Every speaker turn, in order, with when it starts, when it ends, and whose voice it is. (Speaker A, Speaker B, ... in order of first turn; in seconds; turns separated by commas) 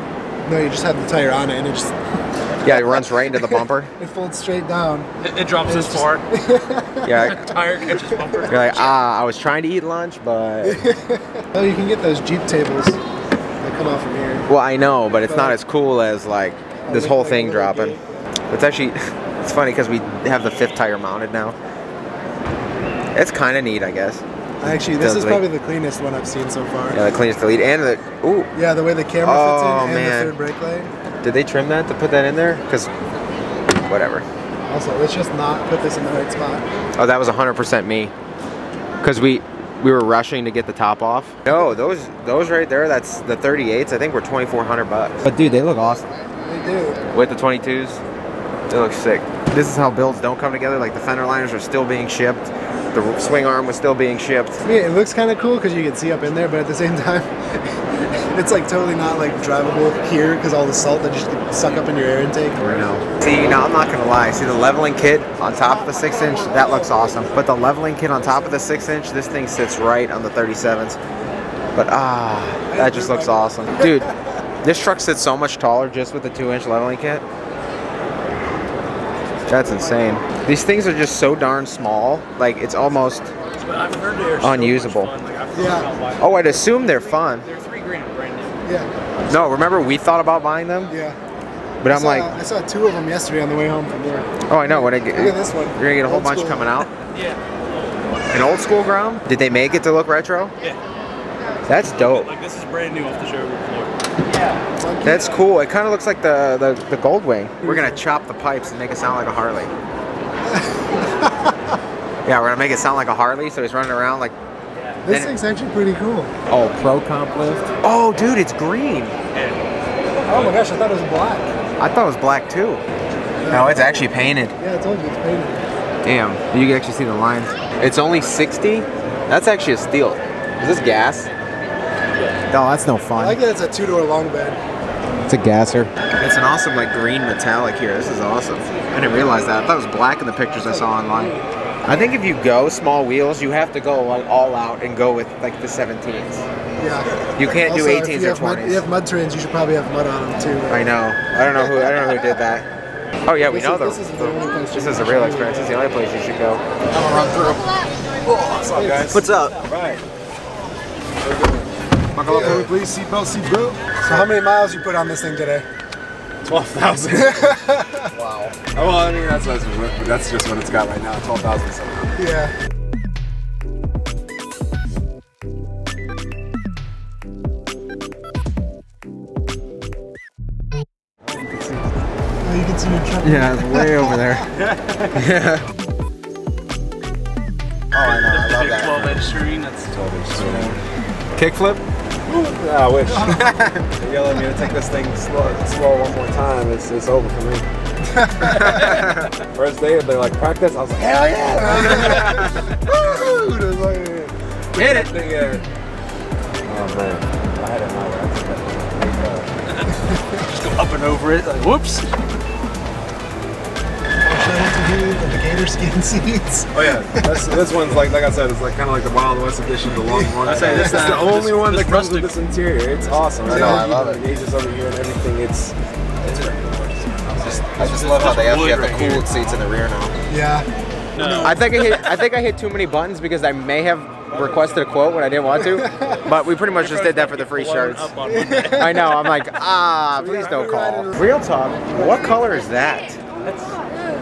Speaker A: 0.5-1.9, Speaker B: 2.6-3.9, Speaker A: 2.6-5.1, Speaker C: 5.2-6.2, Speaker A: 5.6-8.4, Speaker B: 7.0-7.4, Speaker C: 7.1-9.0, Speaker B: 8.5-10.8, Speaker A: 10.6-13.0, Speaker A: 13.6-14.5, Speaker B: 14.5-18.0, Speaker A: 15.3-15.6, Speaker A: 16.8-18.0, Speaker B: 18.5-21.6, Speaker B: 23.1-25.5, Speaker A: 24.6-27.0, Speaker B: 26.9-28.5, Speaker A: 28.5-30.9, Speaker B: 29.2-30.3, Speaker B: 31.2-32.9, Speaker B: 33.9-34.2, Speaker A: 34.7-36.6, Speaker B: 37.0-38.1, Speaker B: 39.0-46.1, Speaker A: 46.4-47.1, Speaker B: 47.1-48.0, Speaker B: 48.7-54.6, Speaker A: 54.6-62.6, Speaker B: 62.6-71.0, Speaker A: 65.6-67.1, Speaker B: 71.7-74.1, Speaker A: 72.7-74.3, Speaker B: 74.6-77.2, Speaker B: 79.5-83.3, Speaker C: 83.6-88.6, Speaker B: 84.4-85.1, Speaker A: 85.5-85.9, Speaker B: 86.2-87.5, Speaker B: 89.3-90.9, Speaker A: 90.9-91.2, Speaker B: 91.8-92.3, Speaker A: 91.9-96.8, Speaker B: 94.5-96.9, Speaker C: 97.1-97.4, Speaker B: 98.3-100.5, Speaker B: 101.7-102.3, Speaker C: 102.0-103.9, Speaker A: 104.8-105.4, Speaker B: 105.0-109.7, Speaker A: 107.6-108.0, Speaker A: 110.5-111.5, Speaker B: 112.2-114.3, Speaker A: 115.0-116.3, Speaker B: 116.5-119.1, Speaker C: 119.3-119.6, Speaker A: 120.3-121.5, Speaker B: 121.8-122.8, Speaker A: 123.4-125.6, Speaker B: 123.5-124.5, Speaker B: 126.0-131.3, Speaker B: 132.5-133.4, Speaker A: 133.2-134.6, Speaker B: 135.2-141.3, Speaker A: 140.6-141.4, Speaker B: 141.8-146.4, Speaker A: 146.8-150.9, Speaker B: 147.3-148.8, Speaker B: 150.7-152.7, Speaker B: 153.2-157.7, Speaker A: 153.5-155.8, Speaker D: 158.2-160.0, Speaker A: 158.7-159.2, Speaker B: 159.1-159.6, Speaker D: 161.2-161.7, Speaker B: 162.1-162.7, Speaker A: 162.2-162.7, Speaker D: 162.3-164.2, Speaker A: 164.0-165.7, Speaker D: 166.4-167.6, Speaker A: 167.3-168.1, Speaker B: 168.1-168.6, Speaker D: 168.7-172.2, Speaker A: 172.2-172.5, Speaker A: 182.4-184.4, Speaker B: 183.2-184.5, Speaker B: 185.1-185.6, Speaker B: 187.9-189.2, Speaker C: 188.0-190.6, Speaker D: 189.9-190.8, Speaker B: 190.4-190.8, Speaker B: 191.3-191.8, Speaker D: 192.3-193.4, Speaker A: 193.1-193.6, Speaker B: 193.2-193.9, Speaker D: 193.9-197.7, Speaker A: 198.1-199.0, Speaker D: 198.5-205.6, Speaker B: 198.6-199.2, Speaker A: 201.6-202.6, Speaker B: 201.7-202.6, Speaker B: 204.8-205.1, Speaker D: 206.7-209.5, Speaker C: 209.7-212.1, Speaker A: 210.0-210.4, Speaker A: 214.2-217.5, Speaker D: 216.7-227.5, Speaker A: 220.1-221.2, Speaker C: 220.4-222.3, Speaker A: 223.2-223.9, Speaker B: 223.4-224.2, Speaker C: 227.2-229.3, Speaker B: 227.4-230.1, Speaker A: 230.3-231.8, Speaker C: 231.2-231.6, Speaker B: 231.4-238.1, Speaker A: 235.6-236.2, Speaker C: 236.7-239.2, Speaker A: 238.2-239.2, Speaker B: 238.7-243.2, Speaker A: 240.1-241.3, Speaker C: 243.4-243.8